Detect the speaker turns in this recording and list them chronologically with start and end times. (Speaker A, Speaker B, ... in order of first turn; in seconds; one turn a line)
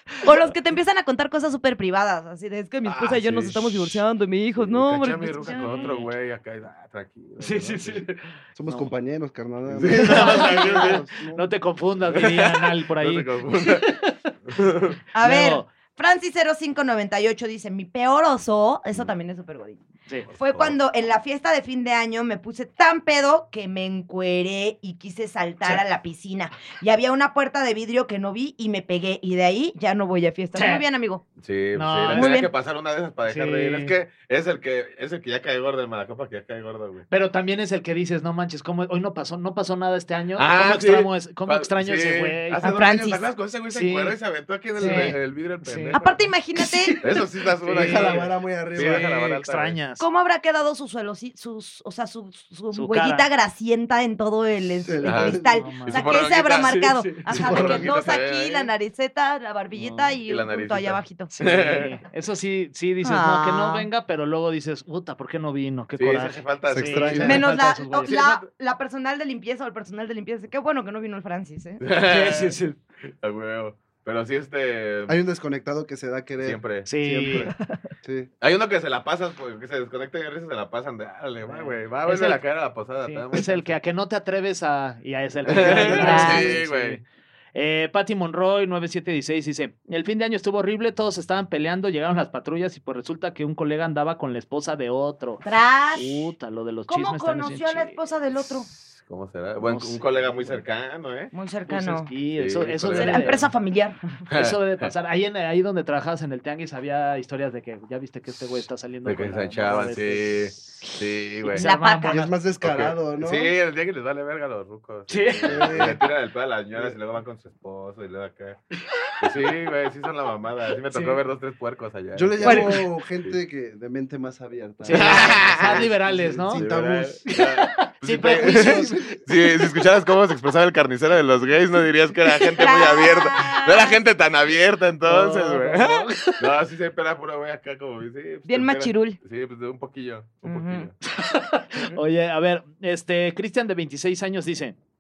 Speaker A: 0.2-5.9
Speaker B: 2.8-4.0
Speaker B: 4.5-8.0
Speaker C: 5.4-6.1
Speaker C: 7.4-8.9
Speaker D: 8.5-11.4
Speaker B: 9.7-11.0
Speaker C: 9.9-14.2
Speaker B: 12.1-13.9
Speaker B: 14.5-15.0
Speaker A: 15.1-19.8
Speaker C: 15.2-15.7
Speaker B: 20.3-20.8
Speaker A: 20.3-31.2
Speaker C: 30.5-30.8
Speaker B: 31.4-37.0
Speaker C: 31.7-32.3
Speaker A: 32.1-32.5
Speaker C: 33.3-33.9
Speaker C: 37.1-42.7
Speaker B: 40.4-46.3
Speaker A: 42.6-43.3
Speaker C: 43.7-44.1
Speaker C: 44.8-46.0
Speaker D: 44.8-45.1
Speaker A: 45.9-47.0
Speaker C: 46.5-50.0
Speaker B: 47.0-49.8
Speaker D: 47.7-49.4
Speaker A: 50.0-61.8
Speaker C: 52.7-53.2
Speaker D: 54.8-55.9
Speaker B: 55.0-58.7
Speaker C: 55.5-56.0
Speaker D: 57.2-58.0
Speaker C: 59.7-60.1
Speaker B: 60.2-61.9
Speaker C: 61.3-68.2
Speaker A: 63.0-63.9
Speaker B: 66.0-67.5
Speaker D: 66.7-67.5
Speaker A: 67.2-71.8
Speaker B: 68.0-68.4
Speaker B: 71.8-72.6
Speaker C: 72.0-72.8
Speaker B: 73.1-75.2
Speaker D: 75.1-77.5
Speaker B: 76.4-76.9
Speaker C: 76.9-77.5
Speaker D: 78.0-78.3
Speaker B: 78.4-83.8
Speaker C: 81.4-82.4
Speaker C: 83.0-87.0
Speaker B: 85.5-87.0
Speaker D: 85.6-86.3
Speaker A: 85.9-86.5
Speaker C: 87.5-95.4
Speaker A: 95.4-96.2
Speaker C: 95.9-98.0
Speaker A: 96.9-98.7
Speaker B: 98.7-101.3
Speaker C: 99.6-100.6
Speaker A: 101.3-102.1
Speaker C: 101.7-103.5
Speaker B: 102.4-103.4
Speaker A: 102.9-104.1
Speaker C: 104.3-112.3
Speaker B: 104.3-104.9
Speaker B: 109.0-111.6
Speaker A: 111.5-112.3
Speaker D: 112.1-113.5
Speaker B: 112.6-118.6
Speaker C: 115.1-115.8
Speaker D: 115.5-116.0
Speaker C: 118.8-119.2
Speaker B: 119.2-123.3
Speaker C: 120.9-121.2
Speaker D: 122.1-127.2
Speaker A: 122.5-122.8
Speaker C: 124.8-126.7
Speaker B: 124.9-125.9
Speaker B: 126.5-140.9
Speaker C: 127.3-129.2
Speaker D: 128.3-128.9
Speaker A: 132.5-134.0
Speaker C: 135.0-136.5
Speaker A: 138.5-139.2
Speaker A: 140.4-140.9
Speaker C: 141.1-144.8